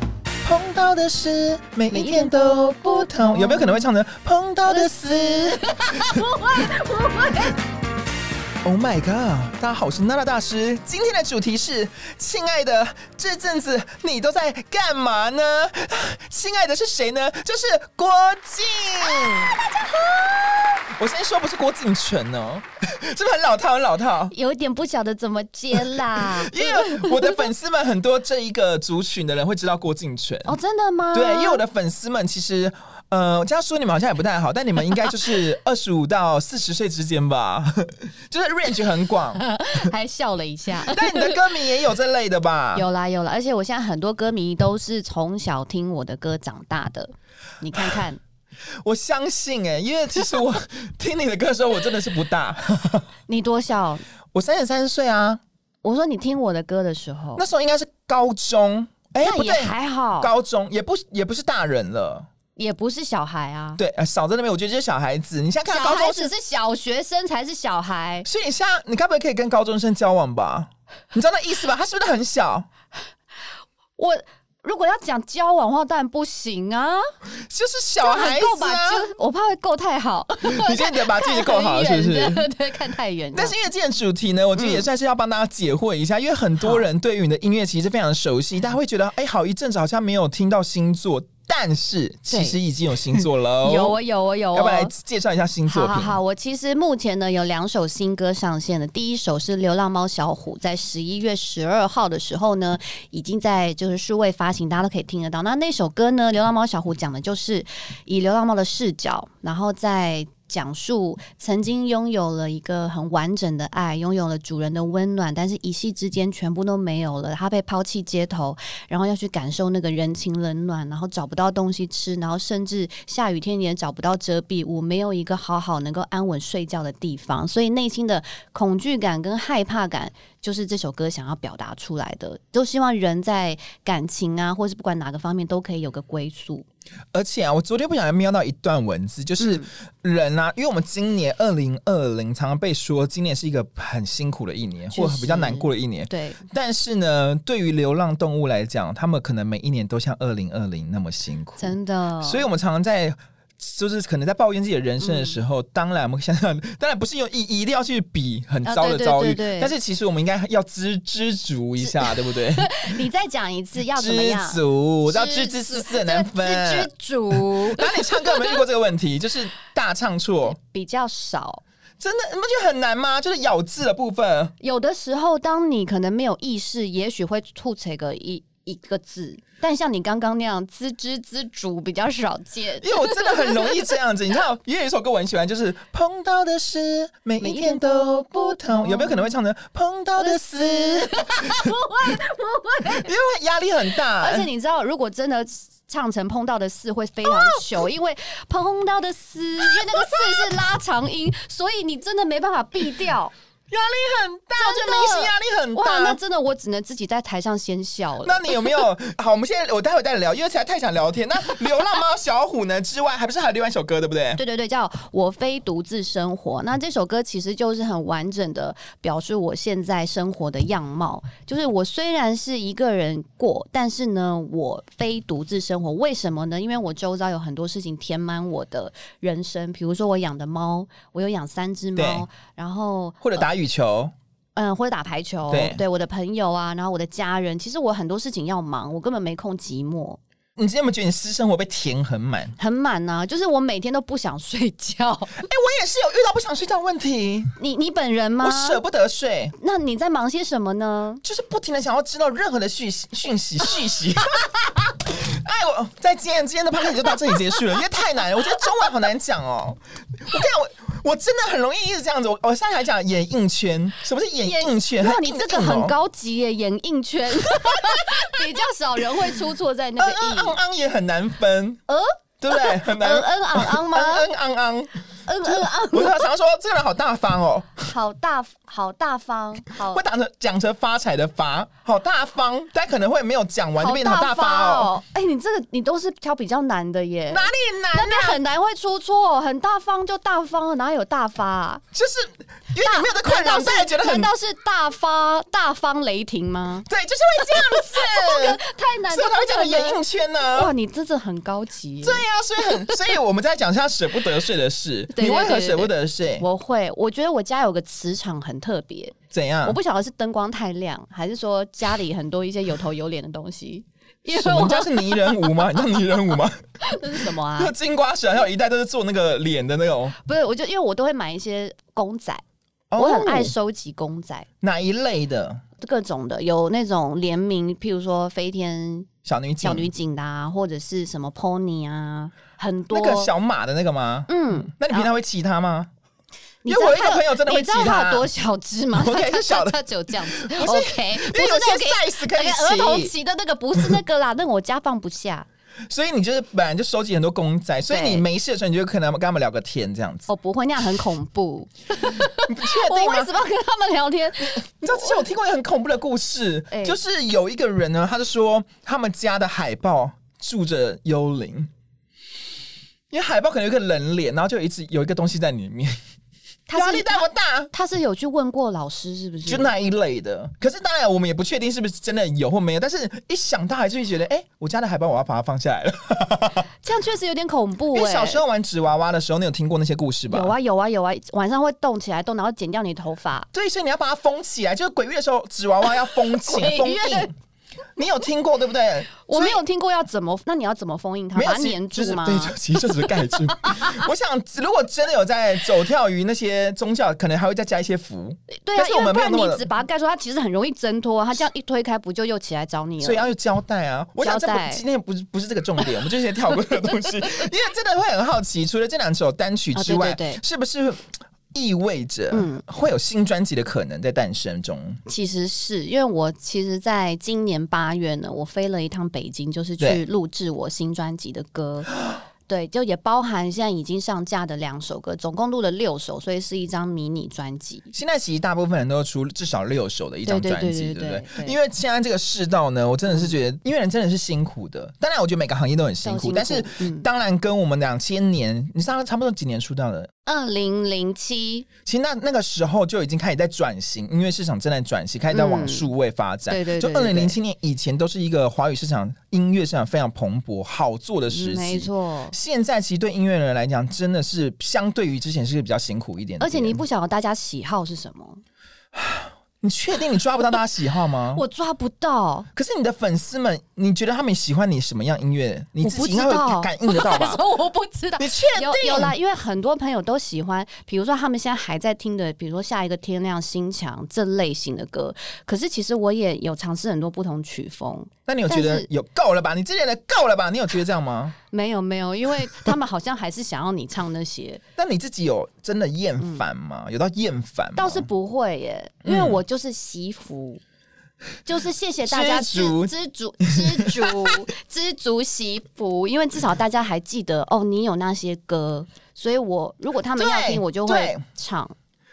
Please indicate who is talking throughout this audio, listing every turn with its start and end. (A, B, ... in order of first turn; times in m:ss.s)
0:00.4-0:06.2 A
0:01.9-0:03.8 B
0:04.7-0:07.6 B
0:08.6-0:20.2 A
0:20.9-0:24.3 A
0:24.3-0:27.4 B
0:25.7-0:30.5 A
0:30.4-0:31.6 B
0:31.1-0:39.4 A
0:39.4-0:41.4 B
0:40.8-0:42.8 A
0:42.7-0:48.2 B
0:47.7-0:48.0 A
0:48.8-0:53.1 A
0:53.3-0:54.0 B
0:54.3-0:55.4 A
0:55.8-0:57.4 B
0:57.4-1:02.3 A
0:59.2-1:00.3 B
1:02.6-1:03.8 B
1:03.8-1:06.3 A
1:05.7-1:08.3 B
1:08.2-1:12.7 A
1:14.0-1:17.0 B
1:17.5-1:19.1 A
1:18.0-1:23.5 B
1:20.4-1:22.5 A
1:23.3-1:34.0 A
1:24.6-1:24.8 B
1:32.3-1:32.6 B
1:33.6-1:34.9 B
1:34.5-1:36.1 A
1:35.7-2:16.6 B
2:17.1-2:42.9 A
2:19.4-2:19.7 B
2:24.9-2:26.4 B
2:31.6-2:32.4 B
2:35.0-2:35.4 B
2:38.6-2:39.7 B
2:42.0-2:48.6 B
2:43.9-2:50.6 A
2:50.5-2:51.6 B
2:52.0-2:54.5 A
2:54.6-3:03.9 B
3:02.8-3:11.7 A
3:07.4-3:09.3 B
3:10.2-3:13.1 B
3:12.9-3:14.5 A
3:14.2-3:23.3 B
3:17.2-3:17.7 A
3:19.6-3:20.5 A
3:23.7-3:26.2 A
3:24.6-3:28.8 B
3:28.2-3:34.4 A
3:34.4-3:53.4 B
3:52.0-3:52.2 A
3:53.2-3:54.1 A
3:54.6-4:00.2 B
3:55.5-3:55.8 A
4:00.6-4:02.5 A
4:02.6-4:05.4 B
4:05.4-4:07.5 A
4:07.6-4:08.8 B
4:08.4-4:09.5 A
4:09.6-4:11.2 B
4:11.2-4:25.9 A
4:24.4-4:30.6 B
4:27.5-4:28.3 A
4:30.0-4:31.8 A
4:31.9-4:34.3 B
4:32.4-4:34.9 A
4:35.2-4:36.3 B
4:35.4-4:37.9 A
4:37.9-4:40.0 B
4:39.7-4:44.9 A
4:43.8-4:51.8 B
4:47.3-4:48.4 A
4:51.9-4:54.3 A
4:52.8-4:56.8 B
4:56.9-5:00.7 A
4:57.4-5:02.2 B
5:02.0-5:06.4 A
5:05.1-5:15.4 B
5:09.3-5:09.8 A
5:14.3-5:16.6 A
5:16.8-5:17.7 B
5:17.2-5:20.1 A
5:20.2-5:22.4 B
5:22.9-5:23.5 A
5:23.0-5:24.5 B
5:24.6-5:25.6 A
5:25.8-5:29.1 B
5:29.2-5:29.9 A
5:29.6-5:33.3 B
5:32.9-5:35.9 A
5:34.3-5:35.1 B
5:36.6-5:45.5 B
5:36.6-5:38.3 A
5:38.9-5:43.1 A
5:45.9-5:50.3 A
5:47.9-5:48.2 B
5:50.3-5:55.2 B
5:52.2-5:53.3 A
5:54.4-6:01.7 A
5:56.7-5:57.0 B
6:03.1-6:06.0 A
6:06.7-6:09.7 B
6:06.7-6:07.7 A
6:09.4-6:16.6 A
6:16.8-6:18.4 B
6:17.9-6:20.5 A
6:20.3-6:23.5 B
6:23.5-6:27.3 A
6:26.3-6:27.3 B
6:28.0-6:29.6 A
6:29.2-6:33.1 B
6:31.3-6:39.6 A
6:33.6-6:34.0 B
6:38.5-6:43.3 B
6:43.0-6:55.0 A
6:44.2-6:44.8 B
6:49.7-6:50.4 B
6:52.3-6:52.6 B
6:55.0-7:01.9 B
7:02.5-7:07.9 B
7:07.9-7:20.1 A
7:10.2-7:11.6 B
7:13.1-7:13.3 B
7:16.0-7:17.0 B
7:20.2-7:21.6 B
7:21.8-7:36.8 A
7:25.3-7:25.9 B
7:26.5-7:27.4 B
7:31.3-7:32.4 B
7:36.4-7:38.4 B
7:38.9-7:41.4 A
7:41.3-7:42.5 B
7:42.5-7:47.4 A
7:45.8-7:58.9 B
7:48.2-7:49.1 A
7:58.2-8:01.4 A
8:01.5-8:04.6 B
8:04.8-8:08.1 A
8:06.2-8:06.4 B
8:07.8-8:10.6 B
8:09.0-8:09.4 A
8:11.4-8:21.7 B
8:12.0-8:12.9 A
8:13.4-8:14.3 A
8:20.2-8:21.2 A